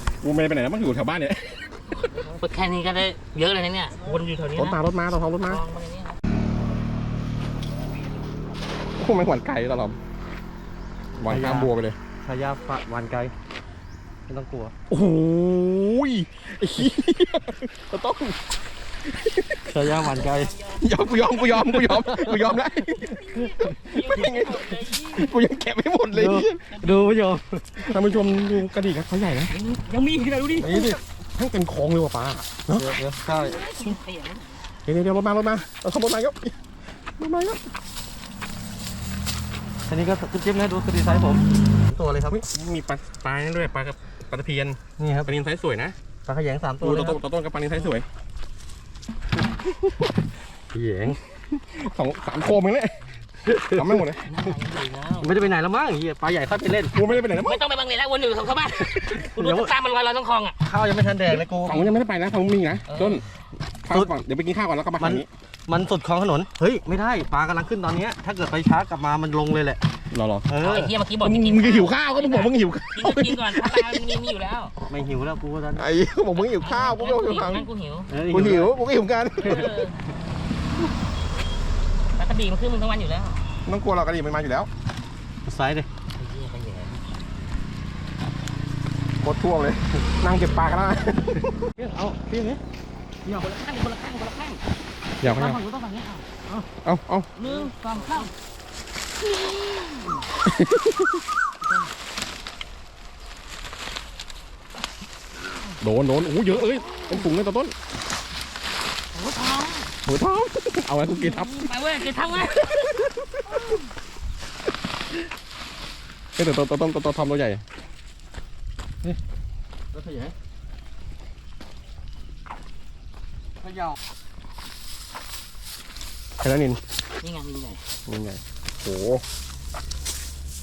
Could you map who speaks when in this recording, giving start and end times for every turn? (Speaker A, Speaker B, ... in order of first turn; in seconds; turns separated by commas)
Speaker A: 0.2-2.1, Speaker B: 2.0-4.8, Speaker A: 4.5-5.6, Speaker B: 5.5-6.2, Speaker A: 9.0-10.0, Speaker A: 11.2-12.0, Speaker C: 11.2-13.3, Speaker C: 14.3-14.7, Speaker A: 14.9-18.5, Speaker A: 19.0-20.0, Speaker C: 19.7-20.6, Speaker B: 20.1-21.3, Speaker A: 20.8-26.7, Speaker C: 21.7-23.7, Speaker B: 23.3-25.3, Speaker C: 26.1-27.9, Speaker B: 26.7-27.2, Speaker A: 27.8-29.6, Speaker B: 29.5-31.0, Speaker C: 30.6-31.0, Speaker A: 30.7-32.9, Speaker C: 32.7-33.8, Speaker B: 33.4-34.7, Speaker A: 34.8-36.6, Speaker A: 37.2-37.6, Speaker C: 39.9-42.4, Speaker A: 42.3-46.0, Speaker C: 45.0-45.3, Speaker C: 46.2-47.2, Speaker A: 46.8-48.1, Speaker C: 50.7-51.2, Speaker A: 51.6-54.2, Speaker C: 53.5-53.9, Speaker B: 54.2-55.4, Speaker C: 55.2-57.1, Speaker A: 56.9-57.6, Speaker B: 57.3-60.6, Speaker C: 59.0-59.7, Speaker C: 60.6-61.9, Speaker A: 61.6-63.2, Speaker B: 62.9-63.2, Speaker A: 63.8-65.3, Speaker C: 63.9-64.1, Speaker C: 65.0-69.8, Speaker A: 70.1-70.5, Speaker C: 70.5-70.9, Speaker B: 70.6-74.7, Speaker A: 71.2-74.2, Speaker C: 74.9-75.9, Speaker A: 75.7-77.7, Speaker B: 76.4-78.1, Speaker C: 78.1-78.8, Speaker A: 78.3-79.8, Speaker B: 79.4-80.0, Speaker B: 82.2-83.4, Speaker A: 83.6-84.7, Speaker C: 85.5-85.9, Speaker B: 86.2-87.0, Speaker A: 89.2-91.7, Speaker C: 91.8-92.6, Speaker B: 93.3-94.6, Speaker A: 95.2-95.6, Speaker B: 95.2-96.3, Speaker A: 96.8-97.3, Speaker B: 97.4-98.3, Speaker C: 97.4-98.3, Speaker B: 99.2-100.2, Speaker A: 100.4-101.1, Speaker A: 105.8-107.7, Speaker B: 106.5-107.2, Speaker B: 109.1-109.9, Speaker A: 110.0-111.7, Speaker B: 111.1-113.8, Speaker A: 112.7-113.6, Speaker A: 116.4-117.6, Speaker C: 119.9-120.3, Speaker A: 126.4-126.8, Speaker B: 127.2-127.8, Speaker A: 128.1-129.2